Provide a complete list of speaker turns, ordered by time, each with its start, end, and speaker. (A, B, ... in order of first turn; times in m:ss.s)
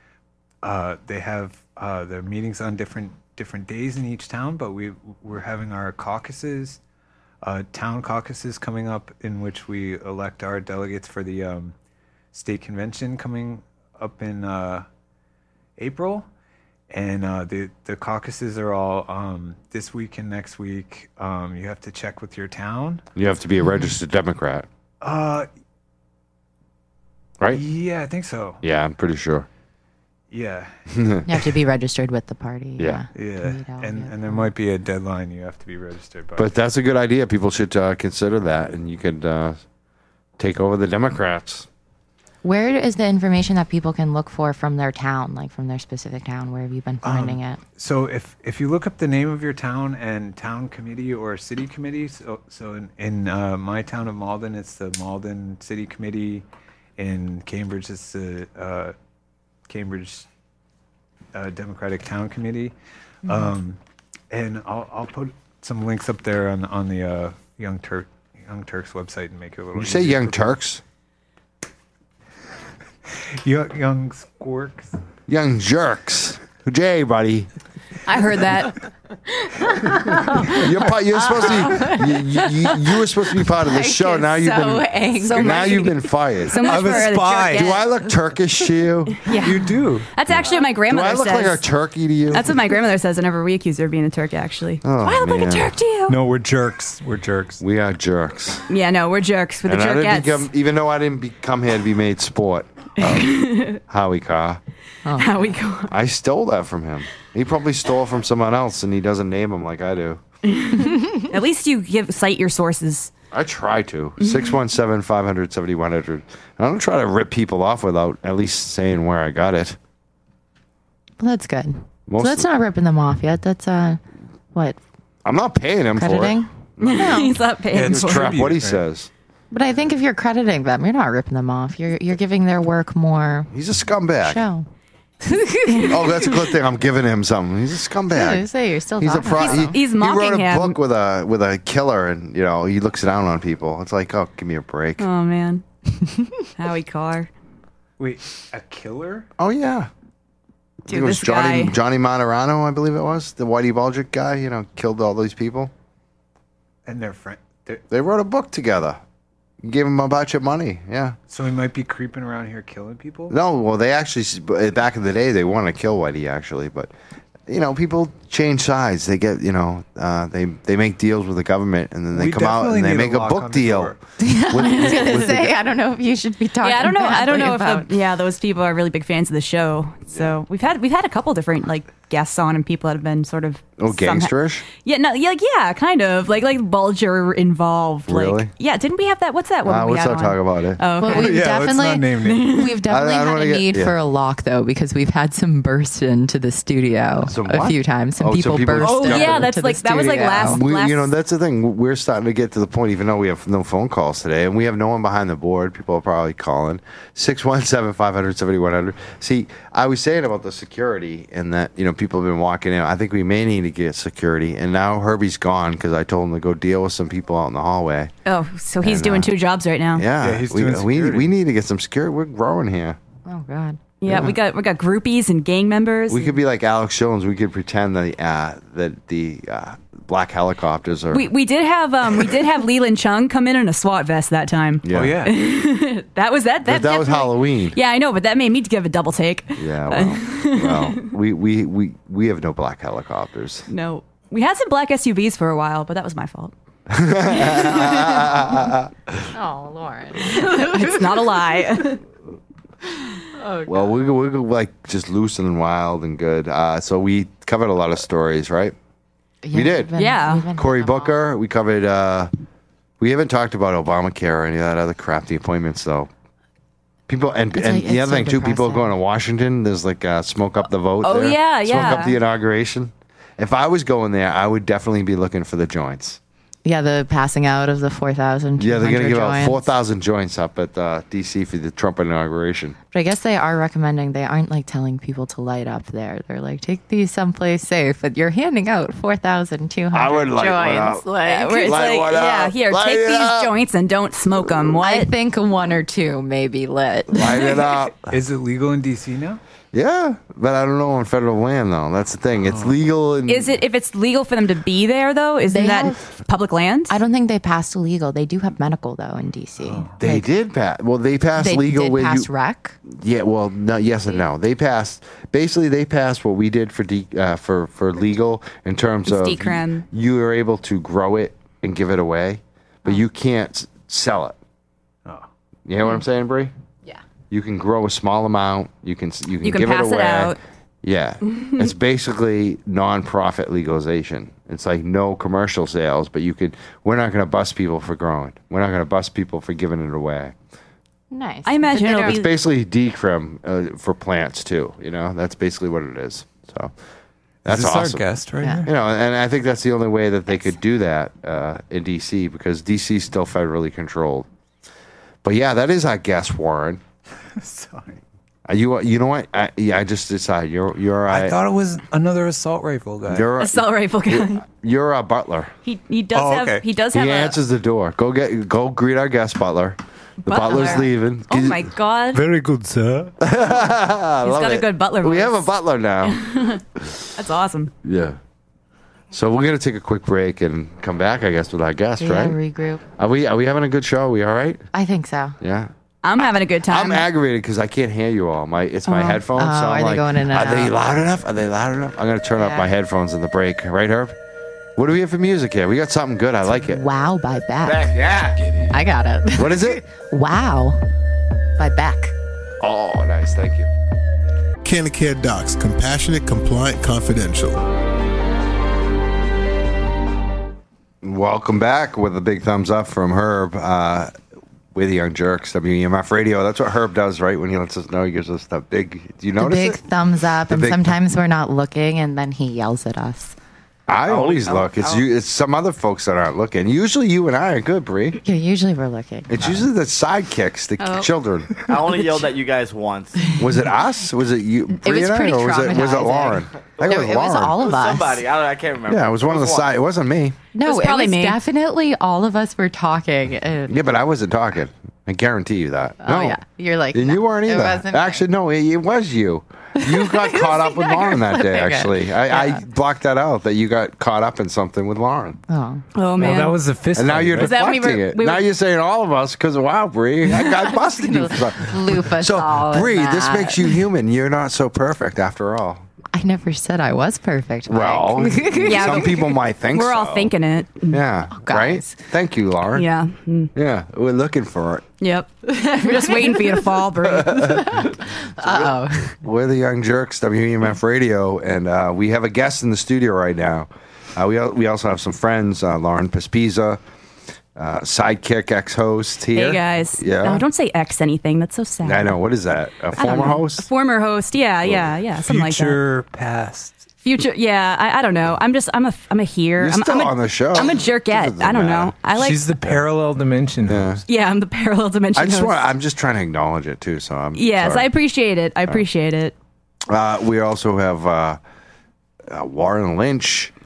0:00.6-0:06.8 A
0:07.4-0:11.7 A
0:12.3-0:14.8 A
0:15.8-0:16.3 A
0:16.9-0:23.0 A
0:23.1-0:24.7 B
0:25.0-0:25.5 A
0:27.5-0:28.6 A
0:28.6-0:29.5 B
0:30.3-0:30.8 A
0:30.9-0:31.3 B
0:31.3-0:34.5 C
0:32.8-0:33.0 B
0:33.1-0:36.5 A
0:36.4-0:39.6 B
0:40.4-0:41.6 B
0:42.4-0:47.6 C
0:47.0-0:56.4 A
0:57.0-0:58.9 A
0:59.7-1:00.2 A
1:01.3-1:02.7 A
1:03.2-1:03.8 A
1:03.2-1:03.5 C
1:04.3-1:10.5 A
1:09.8-1:10.8 B
1:13.1-1:15.0 A
1:15.3-1:17.5 B
1:18.0-1:18.8 D
1:19.4-1:20.4 D
1:20.5-1:29.2 B
1:21.2-1:26.0 C
1:25.2-1:27.8 D
1:26.6-1:27.8 A
1:29.2-1:31.6 D
1:29.3-1:30.1 A
1:30.3-1:32.5 B
1:32.3-1:36.2 D
1:34.8-1:35.7 B
1:36.1-1:37.6 A
1:37.6-1:38.7 B
1:38.7-1:40.5 D
1:39.6-1:44.6 B
1:43.0-1:43.8 D
1:45.0-1:45.3 C
1:45.1-1:45.9 D
1:45.9-1:50.2 B
1:50.4-1:53.1 D
1:53.3-1:59.8 B
1:54.2-1:54.6 D
2:01.2-2:04.0 C
2:02.1-2:02.5 B
2:05.2-2:07.1 B
2:06.0-2:07.4 C
2:06.8-2:08.4 D
2:07.7-2:08.8 A
2:07.7-2:09.1 B
2:09.5-2:13.5 C
2:13.5-2:14.4 B
2:14.2-2:14.6 C
2:15.2-2:16.3 C
2:15.7-2:16.0 D
2:15.8-2:18.4 B
2:18.1-2:19.7 C
2:19.0-2:25.1 B
2:19.3-2:20.8 D
2:25.0-2:25.6 D
2:26.6-2:27.3 D
2:28.0-2:29.3 A
2:29.4-2:29.9 B
2:30.8-2:35.7 B
2:30.9-2:31.7 D
2:36.8-2:37.8 A
2:37.9-2:39.0 B
2:39.6-2:41.2 B
2:41.3-2:43.3 A
2:43.3-2:46.9 B
2:47.5-2:55.5 B
2:52.1-2:54.0 A
2:54.2-2:57.9 C
2:54.6-2:55.2 D
2:56.6-3:11.5 D
3:03.8-3:04.6 B
3:08.1-3:08.5 B
3:09.6-3:10.8 B
3:11.0-3:20.6 C
3:11.1-3:12.6 A
3:12.2-3:12.8 D
3:12.9-3:13.9 B
3:17.2-3:19.5 B
3:18.8-3:21.1 D
3:20.4-3:38.1 B
3:38.2-3:40.1 D
3:38.8-3:39.3 B
3:39.9-3:43.0 B
3:40.2-3:41.3 A
3:43.2-3:43.8 C
3:44.0-3:46.4 D
3:44.0-3:44.4 B
3:46.1-3:51.3 B
3:51.1-4:01.1 D
3:54.8-3:55.2 B
3:54.9-3:55.3 A
3:56.6-3:57.8 B
3:59.6-4:03.7 B
4:03.7-4:06.5 D
4:06.9-4:09.2 B
4:07.2-4:08.5 D
4:09.3-4:11.6 C
4:10.2-4:12.0 D
4:13.2-4:14.0 C
4:13.7-4:18.7 B
4:19.4-4:21.2 C
4:19.5-4:19.9 B
4:20.0-4:20.5 D
4:20.5-4:22.3 B
4:23.0-4:26.1 B
4:27.1-4:36.2 B
4:27.5-4:28.9 C
4:31.0-4:32.2 D
4:36.6-4:39.7 C
4:38.6-4:42.8 B
4:42.9-4:51.9 C
4:49.9-4:51.0 B
4:51.2-4:55.1 D
4:51.6-4:53.5 B
4:54.8-4:57.7 C
4:57.1-4:58.1 B
4:58.1-4:59.4 A
4:59.7-5:03.6 B
5:02.4-5:02.8 A
5:03.3-5:07.0 D
5:05.5-5:06.0 C
5:06.9-5:10.2 C
5:09.6-5:09.9 A
5:10.0-5:12.3 B
5:11.4-5:12.8 C
5:12.9-5:24.4 B
5:19.0-5:19.8 D
5:25.7-5:26.5 B
5:27.3-5:40.3 B
5:29.4-5:30.4 D
5:31.4-5:31.7 D
5:41.1-5:42.2 C
5:41.4-5:42.3 D
5:41.9-5:46.7 B
5:47.4-5:48.0 B
5:47.4-5:48.7 A
5:48.4-5:48.6 C
5:48.6-5:54.3 B
5:55.2-5:56.8 B
5:57.4-5:58.0 A
5:58.5-6:01.4 B
6:01.1-6:03.3 A
6:03.1-6:05.5 B
6:03.4-6:04.4 D
6:05.6-6:07.4 D
6:06.1-6:06.6 A
6:06.9-6:11.7 B
6:10.2-6:12.2 D
6:10.5-6:10.8 C
6:12.1-6:13.1 A
6:13.2-6:16.2 B
6:14.2-6:17.7 D
6:17.8-6:18.2 B
6:19.1-6:22.4 B
6:22.0-6:22.8 C
6:23.0-6:24.6 B
6:24.7-6:25.4 C
6:25.4-6:25.7 B
6:26.0-6:27.0 D
6:26.6-6:34.2 B
6:28.9-6:30.7 C
6:32.4-6:32.7 C
6:34.8-6:36.8 B
6:36.5-6:37.9 C
6:37.6-6:38.7 B
6:38.7-6:40.8 C
6:39.3-6:39.8 B
6:41.6-6:42.1 C
6:42.6-6:43.7 B
6:44.6-6:47.6 E
6:51.0-6:54.1 B
6:54.7-6:59.8 B
6:59.4-7:03.4 C
7:00.5-7:00.9 B
7:03.9-7:08.2 B
7:04.0-7:05.0 F
7:08.2-7:09.3 C
7:09.3-7:11.5 B
7:10.8-7:11.1 D
7:11.7-7:13.3 F
7:13.4-7:17.6 B
7:14.7-7:18.2 C
7:17.6-7:19.7 F
7:18.9-7:20.4 B
7:20.5-7:23.8 C
7:20.6-7:21.4 D
7:23.7-7:26.4 B
7:26.0-7:28.2 C
7:26.9-7:35.4 B
7:29.8-7:32.6 C
7:35.5-7:35.8 C
7:35.9-7:36.6 D
7:36.2-7:37.6 A
7:36.9-7:45.8 B
7:37.4-7:38.4 D
7:40.4-7:43.8 C
7:46.1-7:49.2 C
7:47.7-7:50.3 B
7:48.6-7:51.0 D
7:50.9-7:52.9 B
7:51.3-7:52.0 C
7:52.7-7:53.5 D
7:53.5-7:54.8 B
7:55.0-7:57.8 D
7:55.5-7:59.2 C
7:57.1-8:06.8 B
8:07.6-8:10.4 B
8:09.3-8:12.2 D
8:11.8-8:13.7 B
8:13.0-8:15.8 D
8:15.2-8:16.9 A
8:17.0-8:22.5 D
8:19.6-8:22.0 B
8:22.1-8:24.0 A
8:23.7-8:24.0 B
8:24.1-8:25.6 D
8:25.1-8:27.9 B
8:27.3-8:29.3 D
8:29.9-8:31.4 B
8:32.3-8:33.5 B